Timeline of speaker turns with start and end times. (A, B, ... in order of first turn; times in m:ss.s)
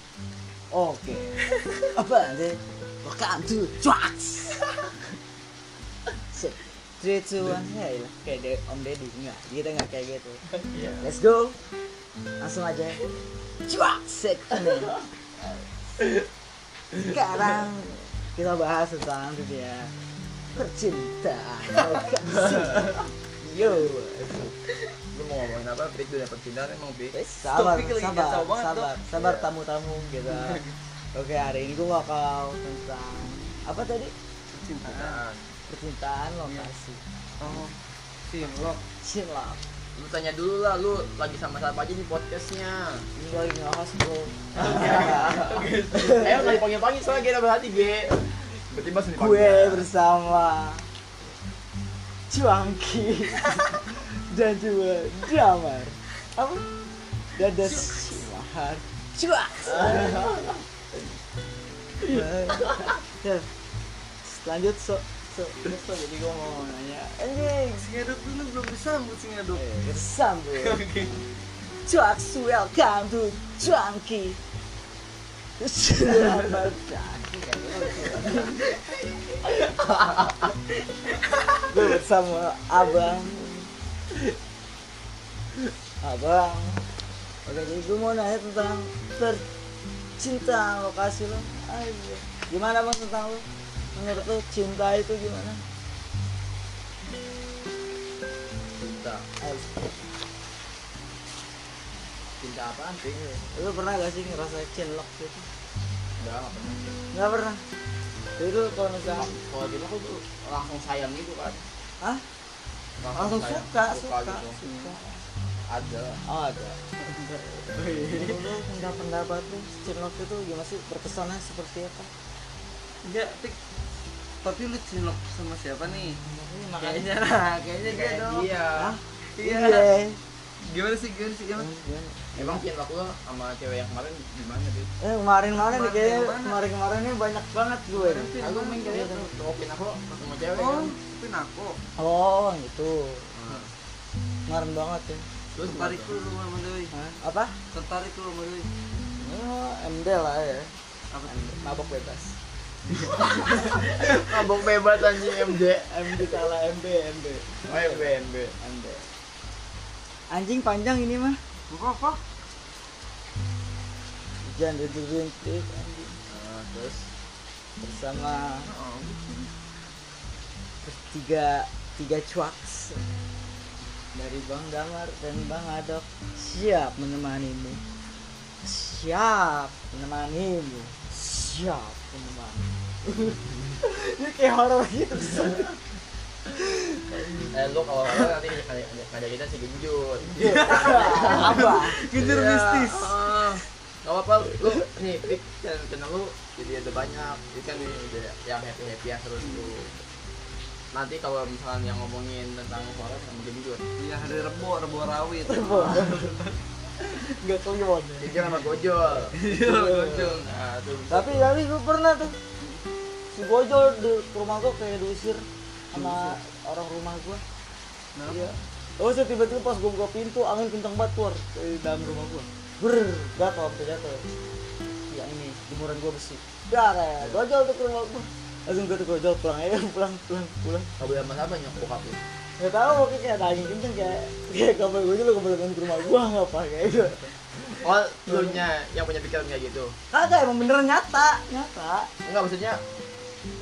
0:00.7-0:04.7 A
0:06.3-0:10.4 A
0:10.7-0:11.1 B
0:11.0-0:11.6 A
0:12.4-0:13.1 A
0:13.7-0:15.0 A
0:17.0-0:19.9 A
0:20.6-0:24.5 A
0:25.1-0:27.2 B
0:27.1-0:30.6 A
0:27.4-0:29.0 C
0:29.2-0:29.5 B
0:30.3-0:30.8 C
0:31.1-0:34.1 A
0:34.5-0:35.2 C
0:34.8-0:35.6 B
0:35.7-0:37.0 A
0:37.4-0:37.8 C
0:38.3-0:38.8 C
0:39.0-0:39.6 A
0:40.0-0:43.1 B
0:43.2-0:46.6 A
0:44.6-0:49.9 B
0:44.6-0:46.6 C
0:49.2-0:50.9 A
0:52.3-0:56.6 A
0:57.4-1:00.4 A
0:57.6-0:57.9 C
0:59.7-1:00.6 B
1:02.1-1:03.5 A
1:02.6-1:03.0 B
1:04.2-1:07.9 A
1:07.8-1:09.6 C
1:09.5-1:10.9 A
1:10.6-1:11.2 C
1:11.8-1:14.4 A
1:15.6-1:18.6 A
1:19.8-1:20.5 B
1:21.7-1:23.7 A
1:26.0-1:26.8 A
1:27.4-1:29.4 A
1:30.2-1:35.6 A
1:38.8-1:39.2 B
1:39.4-1:39.8 A
1:42.4-1:43.4 B
1:43.5-1:45.5 A
1:46.2-1:47.0 B
1:47.1-1:47.6 A
1:48.4-1:49.3 A
1:49.1-1:51.6 B
1:53.0-1:54.6 B
1:53.1-1:55.2 A
1:54.6-1:54.9 C
1:55.7-1:56.2 B
1:56.3-1:56.8 A
1:57.0-1:58.4 C
1:58.1-2:02.1 A
2:03.0-2:03.6 C
2:04.4-2:06.2 C
2:06.2-2:07.1 A
2:06.8-2:08.5 C
2:07.9-2:09.0 B
2:08.8-2:10.2 A
2:09.4-2:09.9 C
2:10.6-2:11.7 C
2:11.6-2:12.6 A
2:12.4-2:14.9 B
2:15.0-2:19.3 A
2:15.6-2:16.6 C
2:17.9-2:19.1 C
2:18.4-2:20.9 B
2:20.6-2:21.8 C
2:22.0-2:23.3 A
2:23.4-2:23.7 B
2:24.5-2:25.2 A
2:25.6-2:26.2 B
2:25.6-2:26.9 C
2:26.9-2:27.6 A
2:27.7-2:28.7 C
2:29.2-2:30.7 A
2:31.2-2:32.4 A
2:33.5-2:36.4 B
2:35.8-2:38.1 A
2:37.7-2:38.6 B
2:38.6-2:39.1 A
2:40.3-2:41.4 A
2:41.7-2:42.2 C
2:44.4-2:46.2 A
2:46.3-2:47.1 B
2:47.8-2:48.7 A
2:48.6-2:49.5 C
2:50.8-2:53.0 A
2:54.2-2:57.8 A
2:58.6-3:05.8 A
3:06.5-3:07.5 A
3:07.5-3:19.9 B
3:10.4-3:12.0 A
3:10.4-3:13.5 C
3:20.9-3:23.8 B
3:24.0-3:26.6 C
3:25.4-3:26.2 A
3:27.1-3:28.3 A
3:28.2-3:29.4 B
3:28.3-3:28.6 C
3:29.3-3:30.4 C
3:29.5-3:30.2 A
3:30.1-3:31.5 B
3:31.1-3:32.4 A
3:33.3-3:37.4 A
3:35.9-3:36.4 C
3:38.2-3:38.6 C
3:38.3-3:44.2 A
3:45.1-3:50.9 A
3:51.0-3:52.2 B
3:52.6-3:57.3 A
3:57.7-4:00.0 B
3:58.3-3:58.6 A
4:00.1-4:02.1 A
4:02.2-4:02.8 B